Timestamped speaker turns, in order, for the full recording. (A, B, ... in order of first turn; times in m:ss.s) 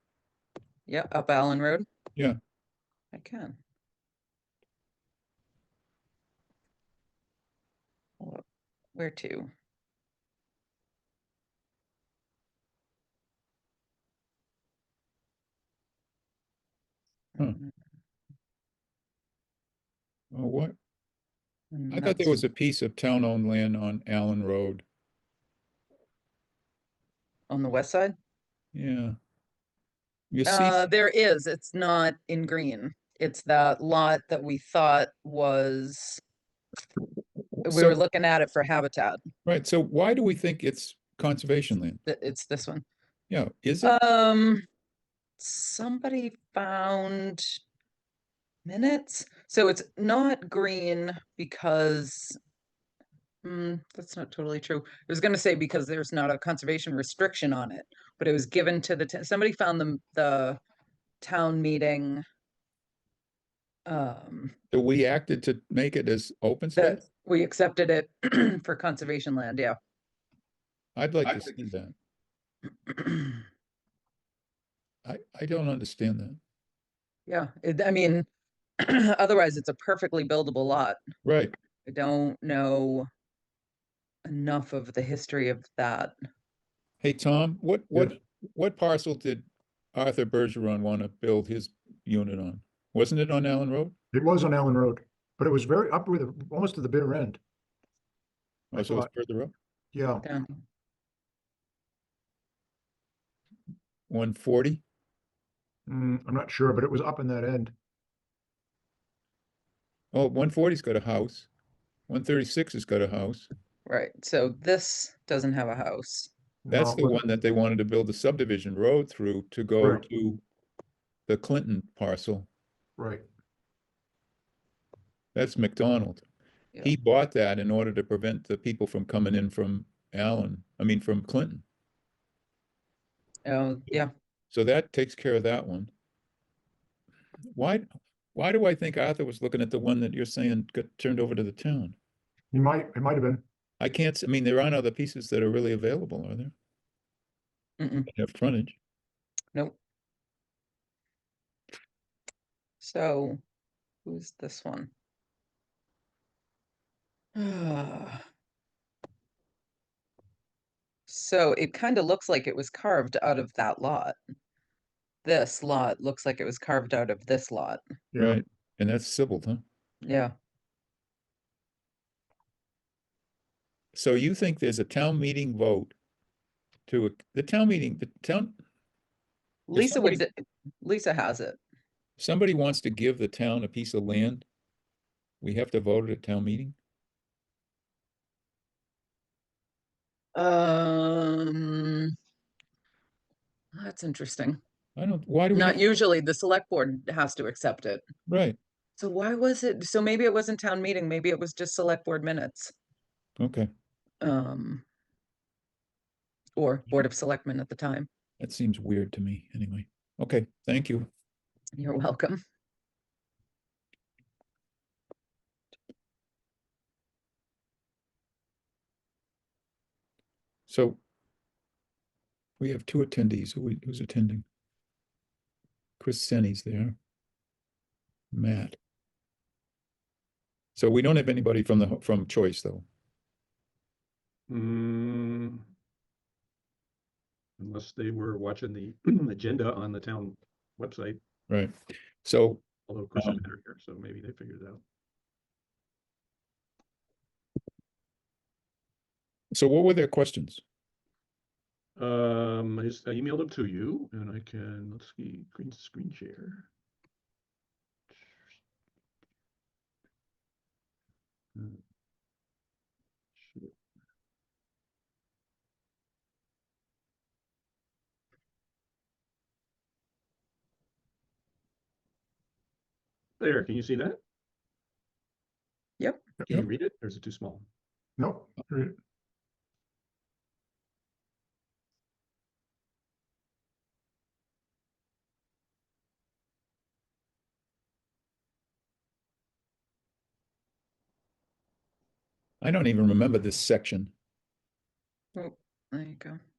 0:00.9-0:01.8 A
0:03.1-0:03.6 A
0:08.9-0:09.5 A
0:17.4-0:17.7 A
0:20.3-0:20.7 B
0:21.7-0:22.4 A
0:21.9-0:24.8 B
0:27.5-0:28.1 A
0:28.7-0:29.2 B
0:30.3-0:30.9 B
0:30.4-0:36.2 A
0:37.5-0:38.0 B
0:37.6-0:39.2 A
0:39.4-0:42.0 B
0:42.0-0:42.8 A
0:43.3-0:44.0 B
0:43.8-0:44.6 A
0:45.4-0:47.6 A
0:48.6-0:52.4 A
0:53.4-1:00.6 A
1:01.2-1:02.2 A
1:03.8-1:04.5 A
1:04.7-1:07.0 B
1:06.8-1:09.8 A
1:11.0-1:11.9 B
1:12.9-1:13.4 A
1:15.0-1:16.4 B
1:17.3-1:18.2 A
1:18.8-1:21.0 A
1:21.2-1:21.6 B
1:21.8-1:23.1 A
1:24.2-1:26.1 A
1:27.0-1:33.9 B
1:34.1-1:37.4 C
1:38.7-1:39.5 B
1:38.7-1:39.1 C
1:39.9-1:40.2 C
1:40.2-1:40.6 A
1:44.1-1:44.8 B
1:45.9-1:47.7 C
1:50.1-1:51.5 B
1:52.1-1:53.5 B
1:53.8-1:56.3 A
1:56.6-1:57.2 C
1:56.7-2:00.4 B
2:01.3-2:02.5 B
2:03.0-2:03.2 C
2:05.3-2:06.2 B
2:06.8-2:11.6 B
2:13.4-2:14.1 A
2:14.5-2:15.9 B
2:17.5-2:22.0 B
2:22.5-2:23.4 C
2:23.8-2:26.5 B
2:27.8-2:28.1 A
2:28.1-2:28.8 B
2:32.8-2:33.4 A
2:34.0-2:34.9 A
2:37.3-2:38.2 A
2:41.1-2:44.2 A
2:45.2-2:47.8 A
2:48.1-2:48.4 C
2:48.2-2:49.6 B
2:50.0-2:50.3 A
2:53.9-2:55.9 B
2:56.9-2:58.6 B
2:59.7-3:01.6 A
2:59.7-3:00.2 B
3:02.2-3:04.4 B
3:05.4-3:06.8 B
3:10.3-3:12.1 A
3:13.7-3:14.6 A
3:15.0-3:15.8 B
3:15.5-3:18.0 A
3:18.3-3:18.6 B
3:19.0-3:22.7 A
3:23.4-3:23.7 B
3:24.2-3:24.8 A
3:26.6-3:28.1 A
3:28.4-3:31.1 B
3:31.8-3:32.4 A
3:40.7-3:41.0 B
3:42.6-3:44.4 B
3:46.0-3:47.0 B
3:48.3-3:48.8 B
3:50.7-3:52.8 B
3:54.5-3:55.6 D
3:57.6-4:01.2 D
4:01.5-4:02.6 B
4:02.9-4:04.8 D
4:09.5-4:10.6 B
4:12.0-4:16.7 D
4:23.4-4:23.7 D
4:33.4-4:34.2 D
4:36.4-4:37.6 D
4:38.2-4:38.9 C
4:52.6-4:54.1 B
4:55.4-4:56.4 A